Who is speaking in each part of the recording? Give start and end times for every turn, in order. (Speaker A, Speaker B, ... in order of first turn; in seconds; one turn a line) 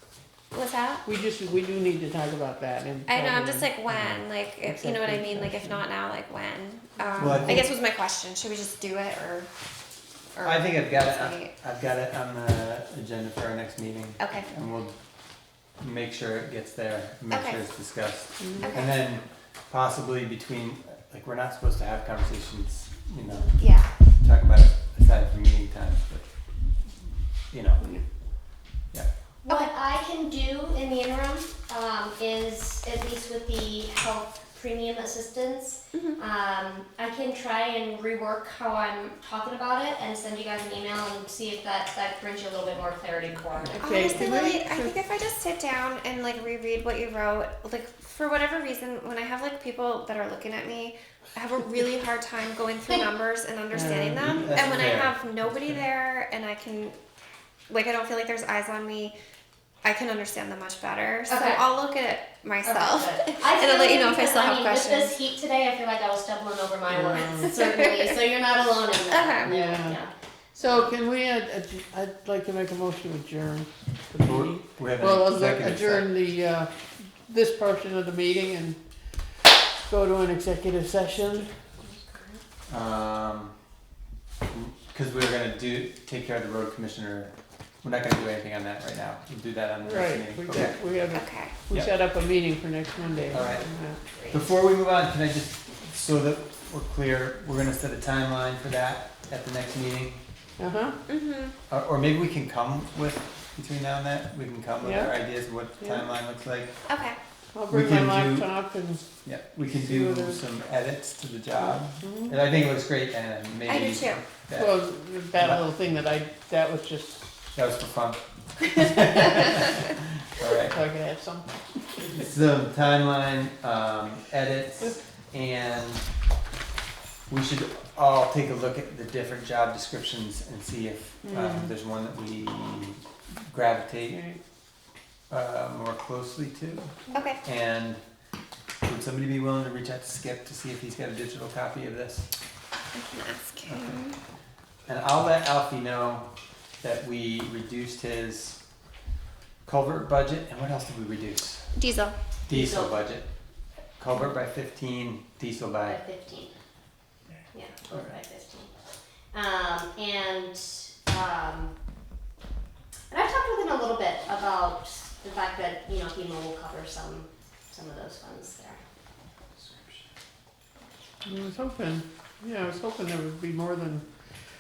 Speaker A: 0.5-1.1
Speaker B: 1.1-3.7
Speaker A: 3.1-9.5
Speaker C: 3.9-4.2
Speaker B: 4.6-5.8
Speaker B: 7.2-7.6
Speaker C: 7.2-7.7
Speaker A: 10.3-11.5
Speaker C: 10.4-15.0
Speaker A: 14.2-14.5
Speaker C: 15.8-23.5
Speaker A: 17.3-17.6
Speaker B: 18.4-18.8
Speaker A: 18.6-18.9
Speaker A: 23.6-23.9
Speaker C: 24.2-26.2
Speaker C: 27.0-27.8
Speaker D: 29.4-43.8
Speaker A: 35.9-36.2
Speaker B: 43.7-45.0
Speaker A: 43.8-57.0
Speaker B: 53.7-54.6
Speaker C: 54.2-55.8
Speaker A: 57.7-59.1
Speaker A: 59.8-65.1
Speaker D: 61.3-61.6
Speaker D: 62.6-70.1
Speaker B: 66.9-67.6
Speaker A: 67.6-68.2
Speaker A: 69.1-69.5
Speaker B: 69.5-70.0
Speaker B: 70.5-76.7
Speaker C: 74.2-76.1
Speaker B: 77.2-78.8
Speaker B: 79.9-81.5
Speaker D: 81.8-82.4
Speaker C: 82.7-83.5
Speaker C: 84.5-90.8
Speaker B: 89.8-94.0
Speaker A: 91.1-91.6
Speaker C: 93.3-93.7
Speaker C: 94.3-100.2
Speaker B: 100.6-101.0
Speaker A: 101.1-101.6
Speaker C: 101.7-106.7
Speaker B: 104.8-105.1
Speaker B: 105.8-106.0
Speaker A: 106.9-107.2
Speaker B: 107.5-109.1
Speaker C: 107.7-108.5
Speaker C: 109.2-114.8
Speaker B: 109.7-110.4
Speaker B: 112.0-112.4
Speaker A: 113.7-114.2
Speaker B: 114.5-117.4
Speaker C: 115.4-115.6
Speaker C: 117.5-120.8
Speaker B: 120.5-121.5
Speaker C: 122.0-126.0
Speaker C: 127.3-134.2
Speaker B: 131.2-131.7
Speaker B: 134.1-134.4
Speaker C: 135.3-136.9
Speaker A: 137.1-137.4
Speaker C: 137.4-138.0
Speaker C: 138.8-142.3
Speaker A: 142.9-144.2
Speaker C: 143.7-144.0
Speaker C: 144.9-146.3
Speaker C: 146.8-148.6
Speaker C: 149.7-151.7
Speaker A: 151.7-152.2
Speaker C: 152.5-153.3
Speaker D: 152.5-153.0
Speaker C: 154.0-156.0
Speaker D: 155.8-156.5
Speaker D: 157.5-158.7
Speaker D: 159.3-161.7
Speaker D: 163.1-168.8
Speaker B: 171.2-174.0